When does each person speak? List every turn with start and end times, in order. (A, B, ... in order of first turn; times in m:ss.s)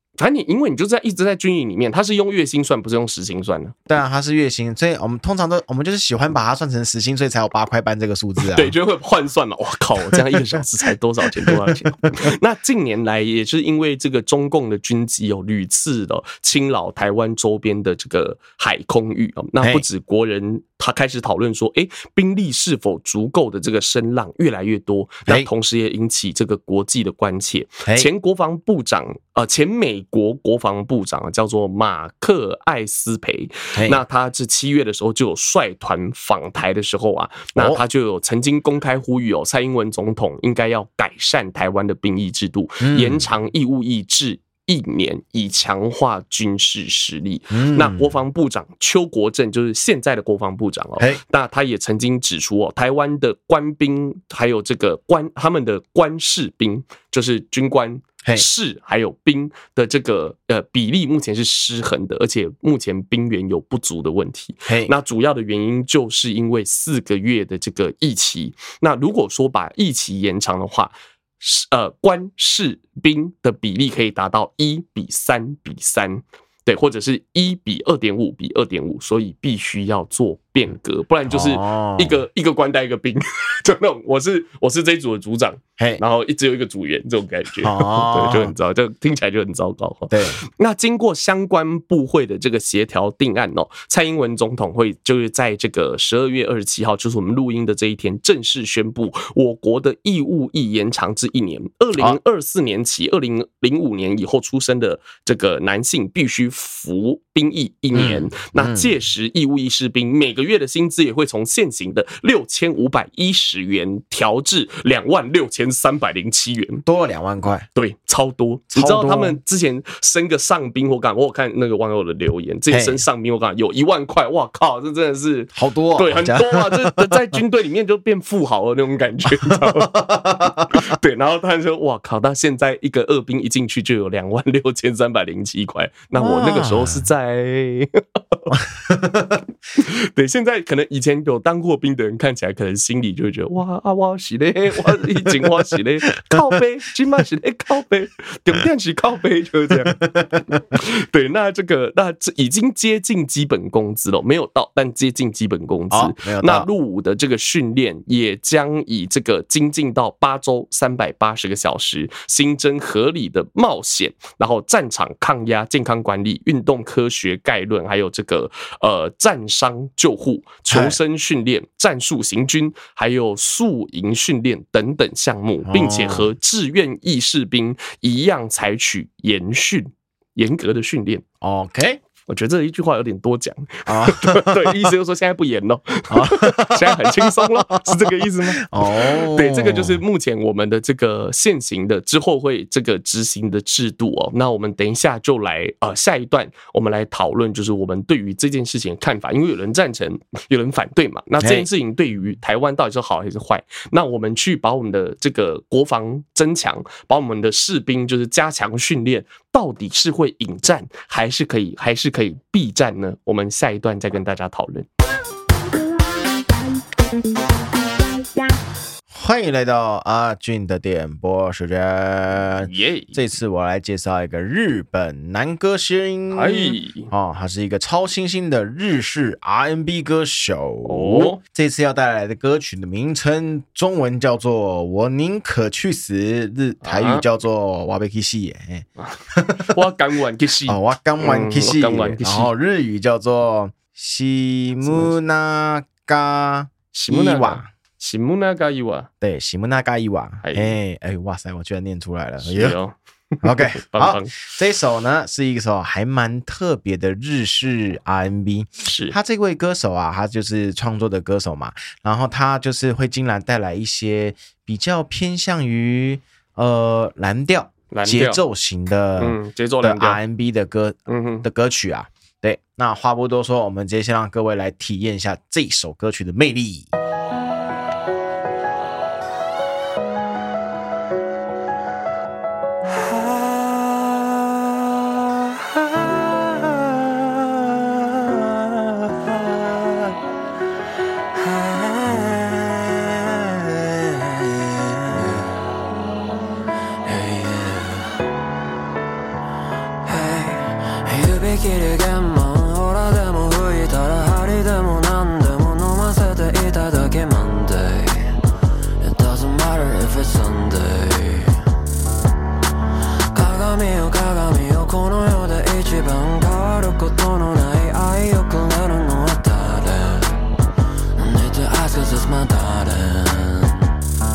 0:00.2-0:03.8 A
0:03.9-0:08.7 B
0:08.4-1:56.8 A
0:11.4-0:12.3 B
0:33.8-0:34.0 B
0:37.6-0:37.8 B
0:42.8-0:43.2 B
0:47.5-0:48.1 B
1:04.7-1:04.9 B
1:21.3-1:22.2 B
1:27.6-1:28.5 B
1:30.1-1:30.4 B
1:47.9-1:48.9 B
1:56.8-1:57.7 B
1:57.8-2:18.5 A
1:58.7-1:59.4 B
2:02.7-2:03.0 B
2:05.5-2:07.2 B
2:09.3-2:10.9 B
2:16.2-2:17.1 B
2:18.5-2:19.4 B
2:19.8-3:01.2 A
2:24.8-2:25.4 B
2:29.8-2:30.6 B
2:35.9-2:36.7 B
2:50.7-2:51.0 B
2:55.6-2:56.3 B
3:01.4-3:02.0 B
3:02.3-3:34.9 A
3:03.9-3:04.9 B
3:06.1-3:10.0 B
3:21.4-3:21.7 B
3:39.1-3:59.8 B
3:42.6-3:43.2 A
3:46.3-3:47.1 A
3:50.9-3:51.4 A
3:56.8-3:57.2 A
3:59.0-4:02.5 A
4:00.7-4:07.7 B
4:04.8-4:05.1 A
4:06.9-4:09.1 A
4:09.2-4:12.8 B
4:10.4-4:10.8 A
4:12.4-4:14.4 A
4:13.4-4:36.9 B
4:18.8-4:19.2 A
4:27.9-4:28.4 A
4:29.2-4:30.2 A
4:31.1-4:31.5 A
4:51.6-4:53.2 C
4:53.8-4:55.5 C
4:57.0-4:58.2 C
5:00.0-5:08.4 C
5:09.0-5:11.7 C
5:13.3-5:20.4 C
5:21.2-5:23.9 C